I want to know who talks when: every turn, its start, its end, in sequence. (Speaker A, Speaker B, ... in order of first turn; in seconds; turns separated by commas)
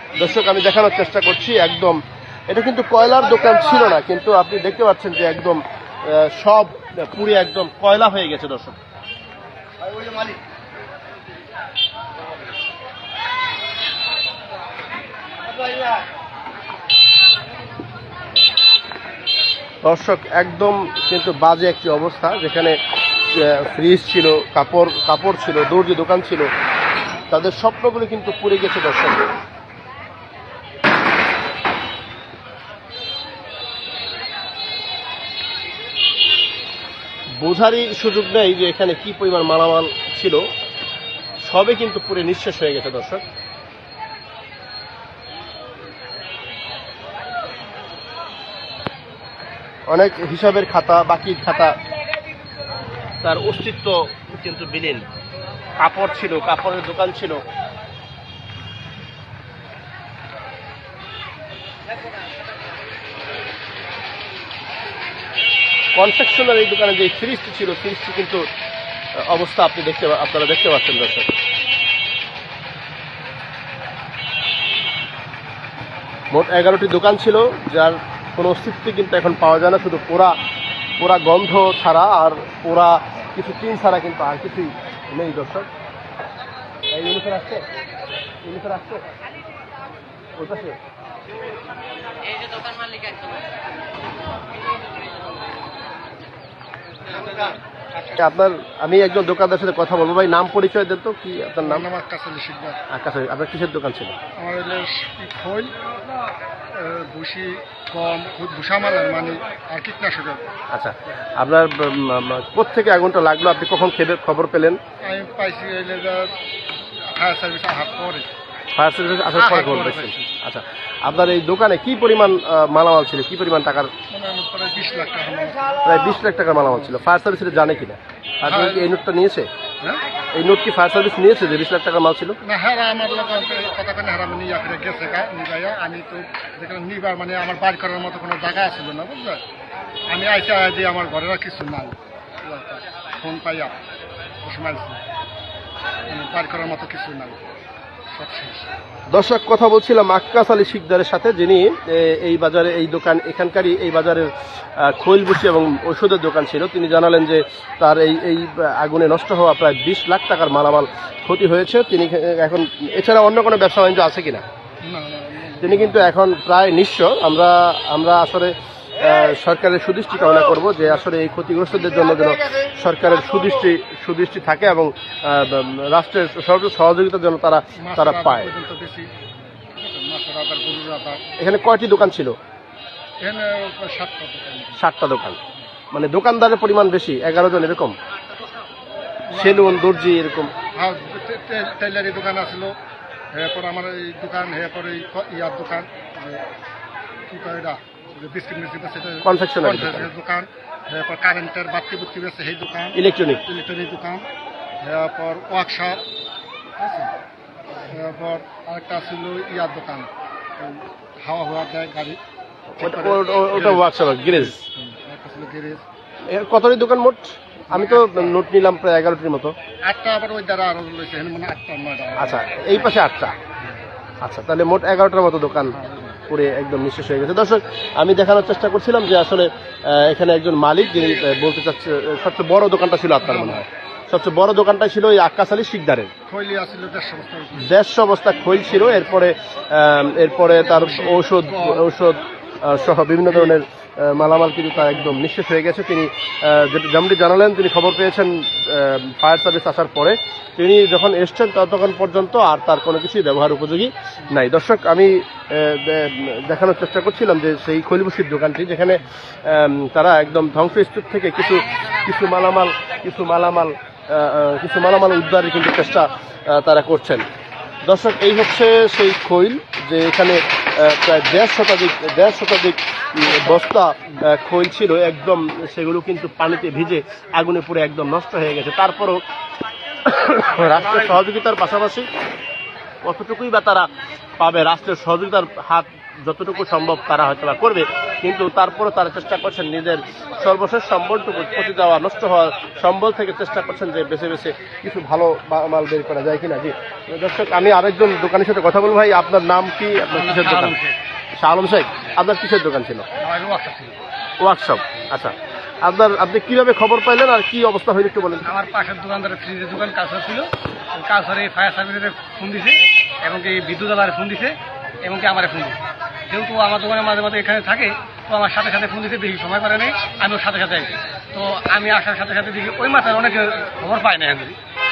Speaker A: 0.1-8.8, Speaker A: 19.8-22.8, Speaker A: 23.3-26.5, Speaker A: 27.3-29.2, Speaker A: 37.4-40.4, Speaker A: 41.4-43.2, Speaker A: 49.9-51.7, Speaker A: 53.2-55.0, Speaker A: 55.8-57.4, Speaker A: 65.9-68.4, Speaker A: 69.2-71.3, Speaker A: 76.3-80.3, Speaker A: 81.0-85.7, Speaker A: 86.9-87.6, Speaker A: 88.4-89.1, Speaker A: 90.3-90.8, Speaker A: 98.2-101.8, Speaker B: 101.6-102.8, Speaker A: 102.9-104.2, Speaker B: 104.4-105.7, Speaker B: 106.7-110.4, Speaker A: 110.7-114.8, Speaker B: 115.0-116.3, Speaker B: 117.1-118.3, Speaker A: 118.8-123.9, Speaker B: 119.3-120.3, Speaker B: 124.1-125.8, Speaker A: 125.8-129.5, Speaker B: 128.4-128.9, Speaker A: 130.3-132.4, Speaker B: 132.4-139.4, Speaker B: 140.1-143.8, Speaker B: 144.4-145.0, Speaker B: 146.1-147.4, Speaker B: 148.1-148.7, Speaker A: 149.1-164.4, Speaker B: 164.8-166.1, Speaker A: 165.6-178.5, Speaker B: 177.8-179.1, Speaker B: 179.8-181.2, Speaker A: 181.4-182.4, Speaker B: 183.2-184.8, Speaker A: 184.8-185.4, Speaker A: 185.9-188.0, Speaker B: 189.3-189.8, Speaker A: 189.3-190.5, Speaker B: 190.7-192.7, Speaker B: 193.3-196.4, Speaker B: 197.3-202.9, Speaker A: 199.2-200.1, Speaker A: 202.9-203.4, Speaker B: 203.5-204.2, Speaker B: 204.8-206.0, Speaker B: 206.8-207.1, Speaker B: 207.9-212.2, Speaker A: 212.8-214.5, Speaker B: 212.8-215.8, Speaker A: 216.3-219.5, Speaker B: 217.7-218.4, Speaker B: 219.9-222.4, Speaker A: 222.2-223.3, Speaker A: 224.2-225.7, Speaker A: 226.3-236.1, Speaker B: 233.2-233.6, Speaker B: 236.3-237.7, Speaker A: 237.7-267.2, Speaker B: 240.9-241.2, Speaker A: 267.8-279.2, Speaker A: 280.0-282.1, Speaker A: 283.0-300.7, Speaker C: 300.1-301.0, Speaker A: 301.3-303.1, Speaker C: 303.2-304.0, Speaker A: 304.4-308.5, Speaker C: 308.5-315.8, Speaker C: 316.3-324.6